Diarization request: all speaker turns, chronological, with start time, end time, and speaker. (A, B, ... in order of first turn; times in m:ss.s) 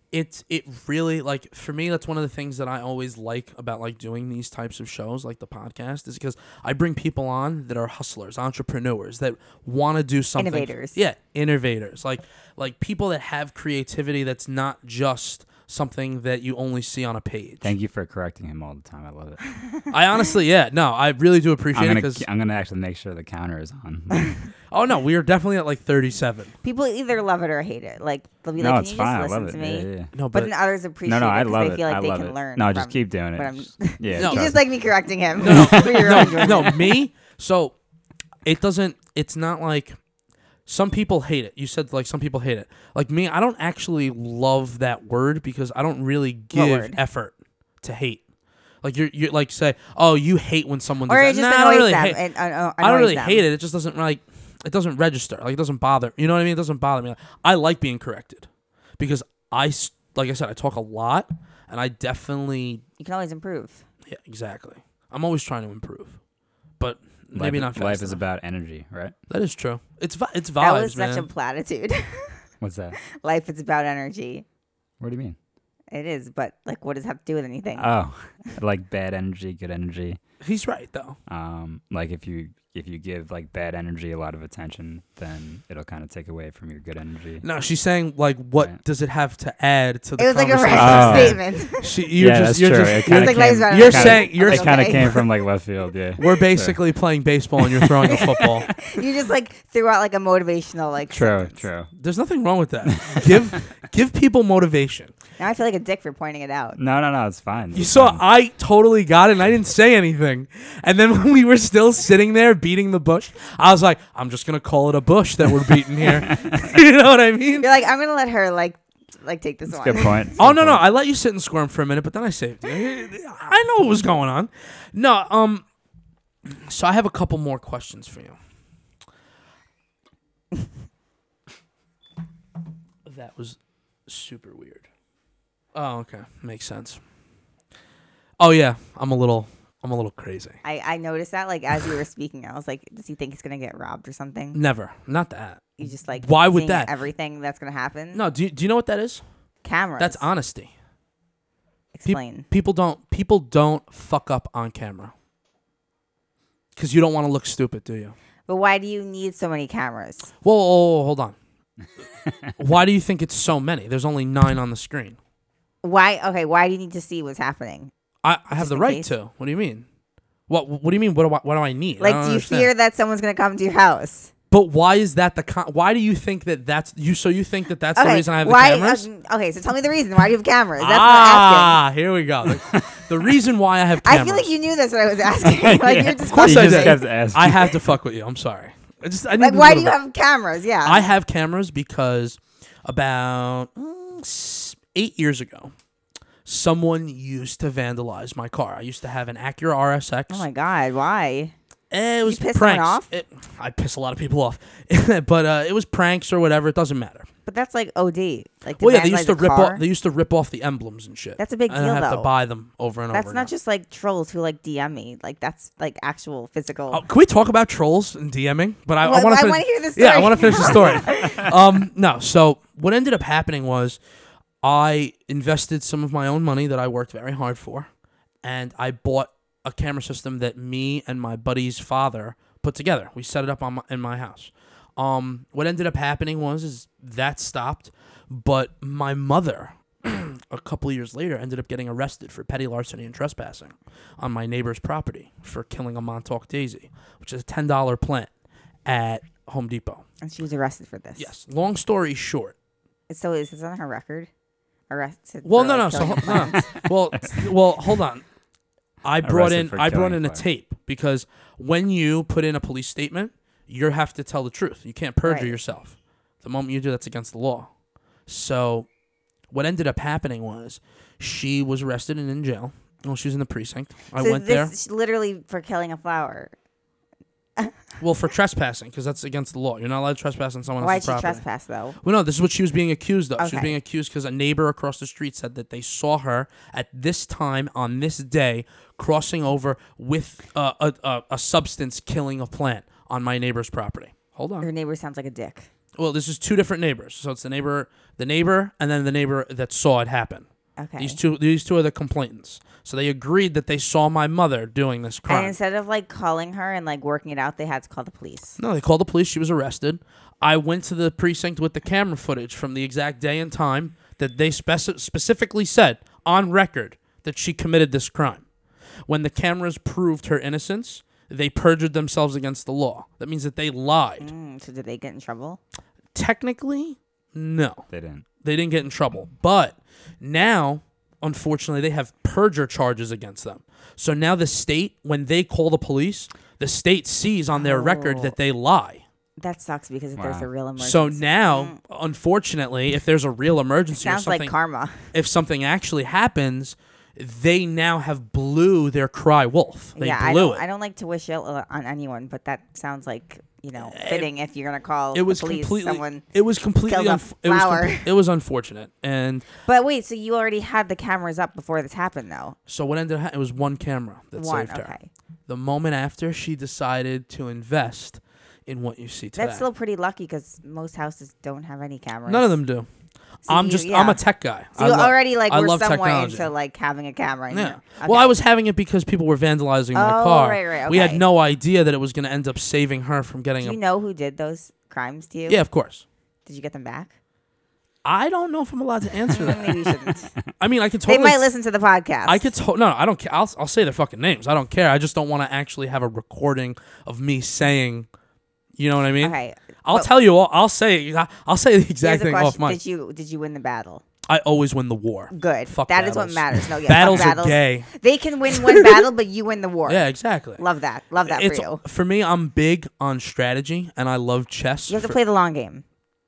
0:00.1-0:17.7 A
0:10.4-0:11.0 B
0:17.6-0:19.4 C
0:19.9-0:22.2 A
0:21.7-0:24.4 C
0:24.7-0:26.5 A
0:26.6-0:37.0 B
0:28.6-0:30.1 C
0:30.1-0:30.5 A
0:31.0-0:34.6 C
0:34.2-0:34.5 A
0:35.4-0:36.5 C
0:35.4-0:37.7 A
0:38.4-0:40.0 A
0:40.6-0:48.2 A
0:46.5-0:47.0 B
0:48.8-0:52.2 A
0:51.1-0:53.4 B
0:52.8-0:58.5 A
0:59.0-1:02.8 A
1:03.0-1:03.8 B
1:04.1-1:06.2 A
1:06.8-1:08.2 A
1:07.3-1:09.1 C
1:09.3-1:11.3 A
1:10.6-1:12.4 B
1:12.6-1:13.0 C
1:13.1-1:14.4 B
1:15.0-1:15.4 C
1:15.9-1:17.9 B
1:17.8-1:20.2 C
1:20.4-1:21.2 A
1:21.3-1:27.4 C
1:27.4-1:35.2 A
1:30.2-1:31.9 B
1:30.7-1:31.4 C
1:32.2-1:36.8 C
1:33.0-1:35.2 B
1:36.2-1:38.7 A
1:37.6-1:38.8 C
1:38.1-1:41.6 B
1:41.1-1:41.9 C
1:42.0-1:45.1 A
1:42.8-1:43.6 C
1:45.4-1:46.8 B
1:46.8-1:48.2 C
1:47.7-1:57.6 A
1:56.1-1:56.7 C
1:57.6-2:00.3 B
1:59.7-2:00.8 C
2:00.4-2:05.6 A
2:06.5-2:08.4 A
2:13.0-2:14.8 A
2:15.7-2:17.0 A
2:18.4-2:20.6 A
2:20.6-2:24.6 B
2:24.5-2:26.9 A
2:25.8-2:28.2 B
2:28.1-2:29.2 A
2:29.6-2:30.2 B
2:30.0-2:30.7 A
2:31.9-2:32.4 B
2:32.0-2:35.1 A
2:36.8-2:38.1 A
2:38.5-2:40.3 B
2:40.4-2:41.4 A
2:42.6-2:45.2 A
2:45.8-2:47.9 B
2:48.2-2:49.8 A
2:48.5-2:49.1 B
2:50.5-2:52.7 A
2:52.0-2:54.3 B
2:54.5-2:59.0 A
2:57.9-3:01.8 B
3:00.8-3:04.5 A
3:04.0-3:07.0 B
3:05.4-3:07.8 C
3:06.0-3:10.0 A
3:09.4-3:11.1 B
3:10.8-3:15.7 A
3:16.4-3:20.4 A
3:20.3-3:21.5 B
3:21.9-3:27.3 A
3:22.2-3:23.1 B
3:27.4-3:29.8 B
3:28.8-3:33.5 A
3:31.4-3:32.3 B
3:33.1-3:37.0 B
3:36.9-3:44.0 A
3:39.0-3:41.4 B
3:44.6-3:47.9 A
3:48.4-4:08.3 A
4:08.8-4:10.0 A
4:10.2-4:11.3 B
4:11.2-4:12.5 A
4:13.1-4:14.3 B
4:14.9-4:16.7 B
4:15.4-4:18.2 A
4:19.0-4:27.7 A
4:19.2-4:20.4 C
4:25.2-4:25.5 B
4:28.3-4:28.9 A
4:29.5-4:34.7 A
4:34.2-4:36.5 B
4:38.0-4:41.4 A
4:40.8-4:42.0 B
4:42.0-4:54.7 A
4:43.4-4:43.7 B
4:54.6-4:55.7 B
4:56.0-5:00.4 A
5:00.8-5:01.2 B
5:01.0-5:05.5 A
5:05.3-5:08.6 B
5:08.6-5:18.4 A
5:19.1-5:24.3 A
5:24.2-5:25.6 B
5:26.1-5:27.8 A
5:27.9-5:28.2 C
5:28.4-5:39.0 A
5:37.5-5:38.4 B
5:39.4-5:41.8 B
5:40.2-5:40.5 C
5:40.8-5:44.5 A
5:43.9-5:45.0 B
5:45.1-5:50.6 A
5:50.0-5:56.2 B
5:53.8-5:54.3 A
5:55.1-5:59.4 A
5:56.9-5:58.1 B
5:59.6-6:02.6 B
6:02.7-6:04.9 A
6:04.4-6:05.1 B
6:05.5-6:09.6 A
6:09.4-6:12.6 B
6:12.3-6:12.9 A
6:13.4-6:14.2 B
6:13.5-6:16.5 A
6:14.8-6:18.4 B
6:17.5-6:23.8 A
6:19.9-6:21.2 B
6:23.6-6:25.6 B
6:25.5-6:26.0 A
6:26.4-6:27.1 B
6:28.0-6:29.8 A
6:29.3-6:30.3 B
6:30.6-6:31.4 A
6:31.1-6:32.5 B
6:32.2-6:38.1 A
6:38.8-6:42.8 A
6:39.2-6:40.1 B
6:42.0-6:44.0 B
6:44.3-6:47.9 A
6:45.3-6:50.0 B
6:48.5-6:49.1 A
6:49.9-6:50.6 A
6:50.6-6:51.8 B
6:51.2-6:55.2 A
6:54.9-6:55.8 B